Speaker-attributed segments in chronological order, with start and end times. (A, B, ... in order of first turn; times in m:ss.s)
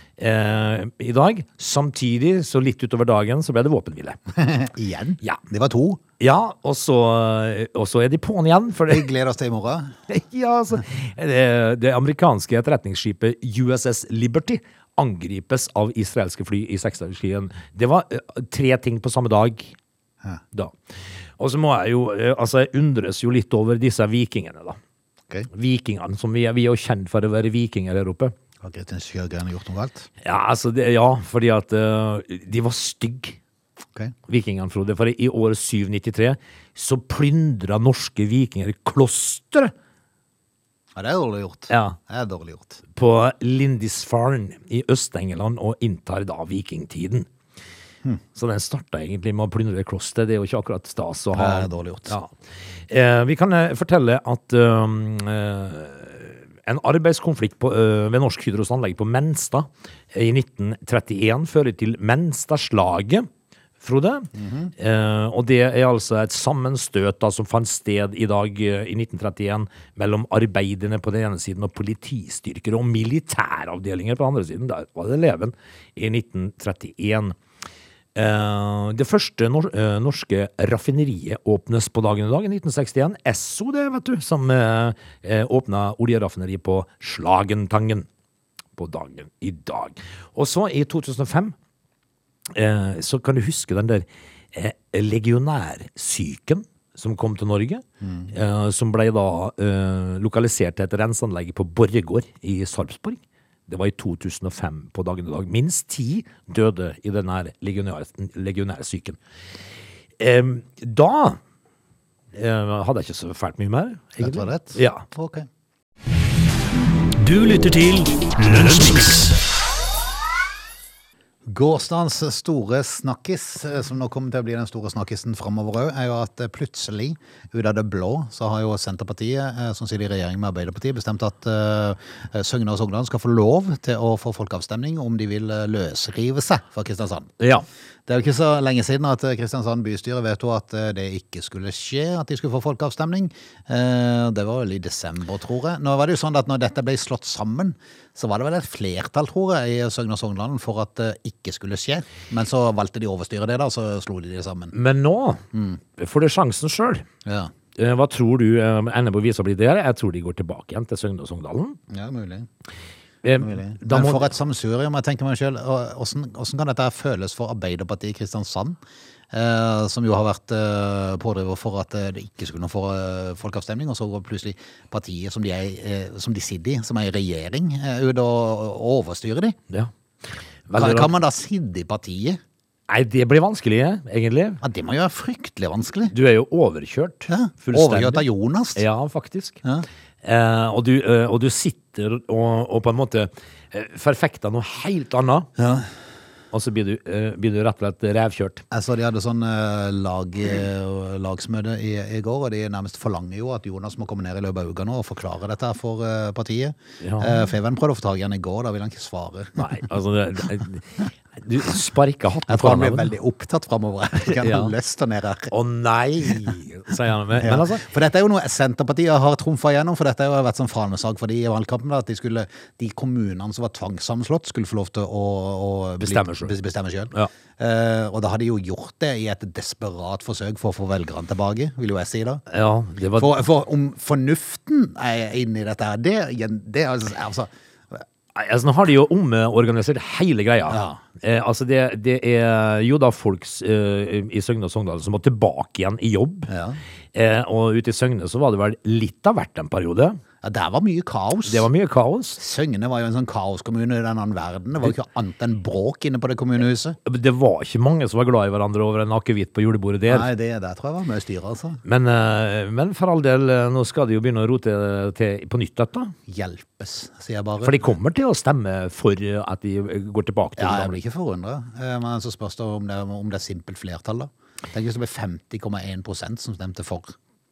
0:00.2-0:04.2 A
0:04.4-0:06.0 B
0:06.2-0:09.1 A
0:08.9-0:10.0 B
0:10.1-0:19.7 A
0:21.4-0:24.8 A
0:25.5-0:28.3 A
0:28.6-0:30.1 B
0:30.2-0:33.4 A
0:34.3-0:39.7 A
0:40.9-0:42.8 B
0:41.7-0:42.0 A
0:42.9-0:47.3 A
0:48.3-0:52.3 A
0:51.3-0:52.2 B
0:52.9-1:03.3 A
1:03.8-1:17.4 A
1:04.3-1:04.7 B
1:18.1-1:28.1 A
1:28.8-1:31.5 A
1:32.5-1:49.2 A
1:38.0-1:38.3 B
1:50.2-1:51.4 A
1:52.3-1:55.0 A
1:54.2-1:55.5 B
1:57.2-1:59.4 C
2:01.5-2:17.3 B
2:17.4-2:17.6 A
2:18.0-2:34.7 B
2:34.7-2:35.4 A
2:35.5-2:35.8 B
2:36.0-2:37.0 A
2:37.2-2:37.5 B
2:37.7-2:41.8 A
2:41.9-2:42.5 B
2:43.2-2:44.3 A
2:43.4-2:48.8 B
2:49.3-2:59.6 B
3:00.7-3:01.1 A
3:00.7-3:02.4 B
3:02.9-3:04.6 A
3:04.6-3:06.1 B
3:06.1-3:09.6 A
3:07.3-3:08.8 B
3:10.2-3:15.5 A
3:15.6-3:15.9 B
3:16.5-3:18.6 A
3:18.7-3:29.8 B
3:27.0-3:27.5 A
3:29.6-3:33.1 A
3:32.5-3:35.5 B
3:34.2-3:34.7 A
3:35.5-3:37.8 A
3:37.3-3:52.4 B
3:46.0-3:46.5 A
3:52.5-3:53.3 A
3:53.2-3:58.0 B
3:58.3-4:06.5 A
4:00.7-4:01.0 B
4:06.5-4:06.8 B
4:07.1-4:10.2 A
4:10.4-4:11.7 B
4:11.4-4:12.4 A
4:12.4-4:17.0 B
4:17.0-4:20.3 A
4:20.1-4:21.8 B
4:21.8-4:26.1 A
4:26.3-4:27.8 B
4:27.6-4:31.0 A
4:30.6-4:37.1 B